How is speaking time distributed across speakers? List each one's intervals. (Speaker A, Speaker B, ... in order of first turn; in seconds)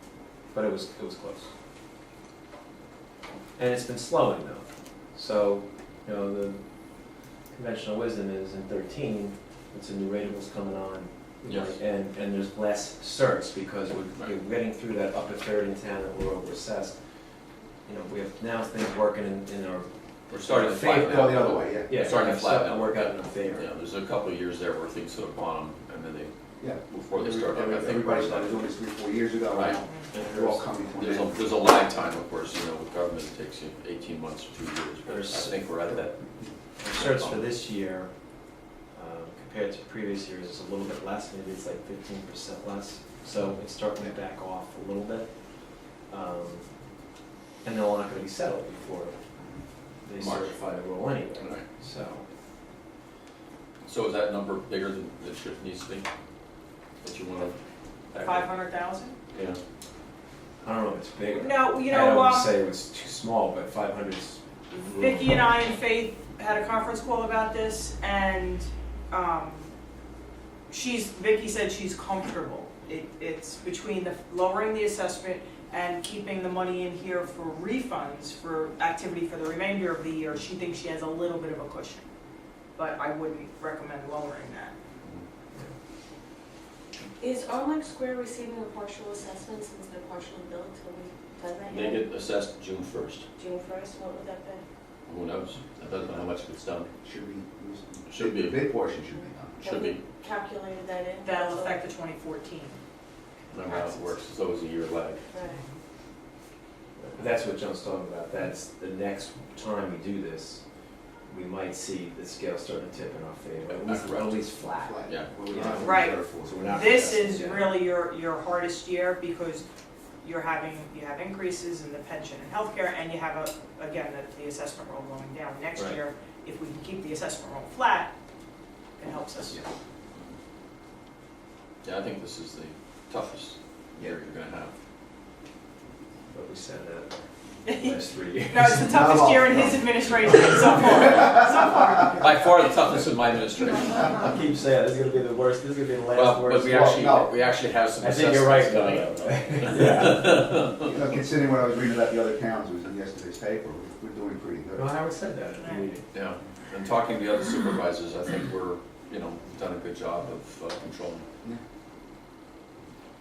Speaker A: 0.5-1.5, 3.6-6.6, 7.5-17.0, 17.9-23.7, 30.1-30.7, 35.1-35.5, 36.8-38.1, 38.9-45.3, 46.1-46.6, 47.6-49.2, 50.0-52.3, 60.6-64.4, 107.2-110.6, 111.3-117.8, 125.8-126.0, 136.3-139.4, 143.9-147.2, 148.0-150.6, 154.8-156.1
Speaker B: 11.4-11.8, 20.3-26.3, 26.8-28.8, 29.5-29.8, 30.9-36.2, 36.8-37.5, 50.2-50.6, 51.4-51.6, 53.9-56.1, 57.0-57.6, 58.1-58.5, 59.3-59.6, 91.7-93.3, 95.1-96.9, 98.1-98.7, 99.6-100.0, 103.5-105.2, 113.7-114.4, 115.1-115.8, 131.8-134.7, 142.2-144.3, 146.1-150.9, 156.1-161.3
Speaker C: 21.0-22.0, 26.6-31.7, 35.9-36.5, 97.0-99.6, 114.7-117.0, 138.9-142.2, 146.8-147.3, 150.8-154.9
Speaker D: 29.8-30.1, 58.2-59.2, 61.3-62.5, 64.7-69.7, 70.7-82.0, 82.8-84.8, 101.2-102.8, 103.7-104.2, 115.8-119.7, 120.2-128.1, 129.0-129.6, 137.7-138.0, 138.5-142.2, 155.6-155.9
Speaker E: 87.2-92.1, 93.4-94.6, 99.6-101.8, 105.3-105.6